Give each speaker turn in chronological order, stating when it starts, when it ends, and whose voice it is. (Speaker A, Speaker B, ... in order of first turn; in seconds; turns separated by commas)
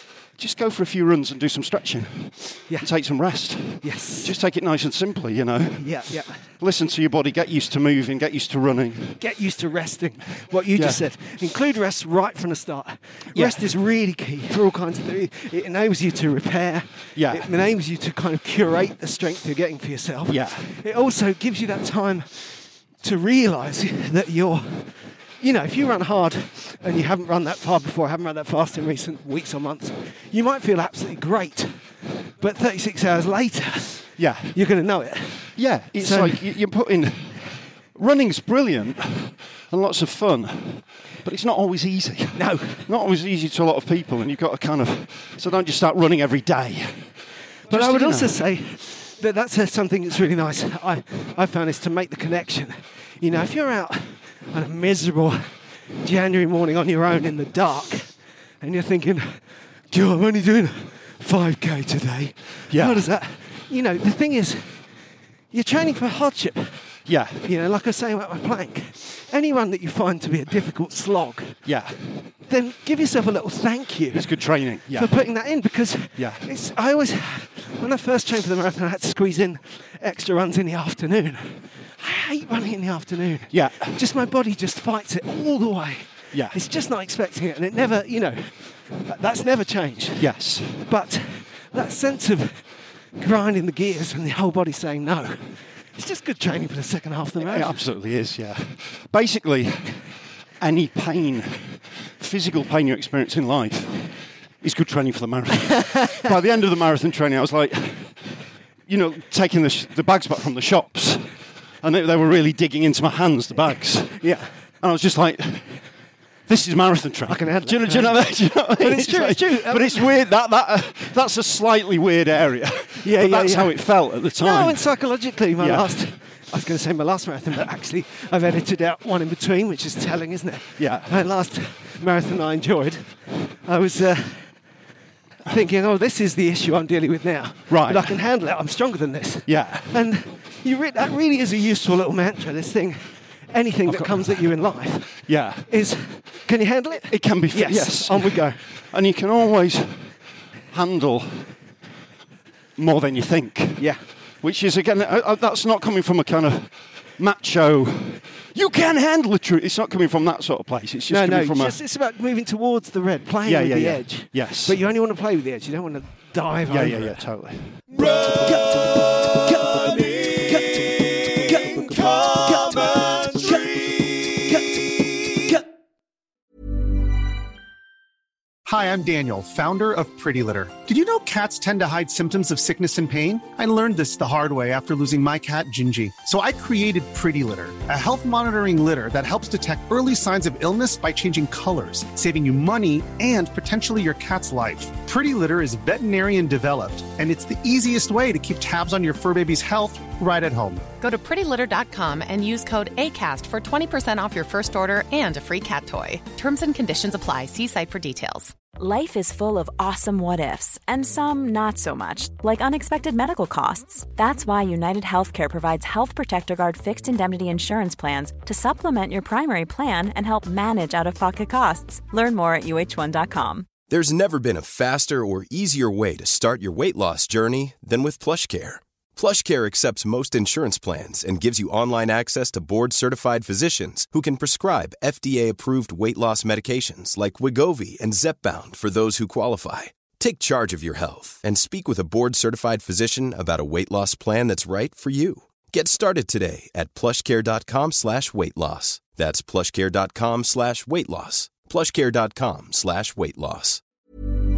Speaker A: 0.4-9.2, Speaker B: 3.8-4.3, Speaker B: 5.8-6.4, Speaker B: 9.2-36.5, Speaker A: 10.8-11.0, Speaker A: 13.3-13.7, Speaker A: 17.1-17.5, Speaker A: 20.3-20.7, Speaker A: 34.2-34.6, Speaker A: 35.5-47.1, Speaker B: 42.4-42.9, Speaker A: 47.7-48.4, Speaker B: 47.7-55.5, Speaker B: 56.0-64.8, Speaker A: 62.7-63.0, Speaker B: 65.5-66.9, Speaker A: 67.1-67.5, Speaker B: 67.4-71.6, Speaker A: 71.6-72.0, Speaker B: 72.5-92.7, Speaker A: 74.1-75.1, Speaker A: 76.2-76.4, Speaker A: 83.5-84.0, Speaker A: 90.2-90.8, Speaker B: 93.2-97.7, Speaker A: 97.4-100.0, Speaker A: 100.6-108.2, Speaker A: 108.9-114.2, Speaker B: 114.2-114.5, Speaker A: 114.8-115.8, Speaker A: 116.5-124.8, Speaker B: 117.3-120.1, Speaker B: 123.0-134.5, Speaker A: 125.6-125.9, Speaker A: 130.8-131.1, Speaker B: 135.5-148.6, Speaker A: 137.7-138.2, Speaker A: 139.4-139.9, Speaker A: 143.9-144.5, Speaker A: 145.2-145.7, Speaker A: 147.1-150.1, Speaker A: 150.7-151.5, Speaker A: 152.8-161.8, Speaker B: 153.8-154.0, Speaker B: 161.1-167.2, Speaker A: 163.4-164.8, Speaker A: 166.7-175.6, Speaker C: 178.6-200.8, Speaker D: 201.0-208.6, Speaker E: 208.8-223.7, Speaker F: 223.8-253.8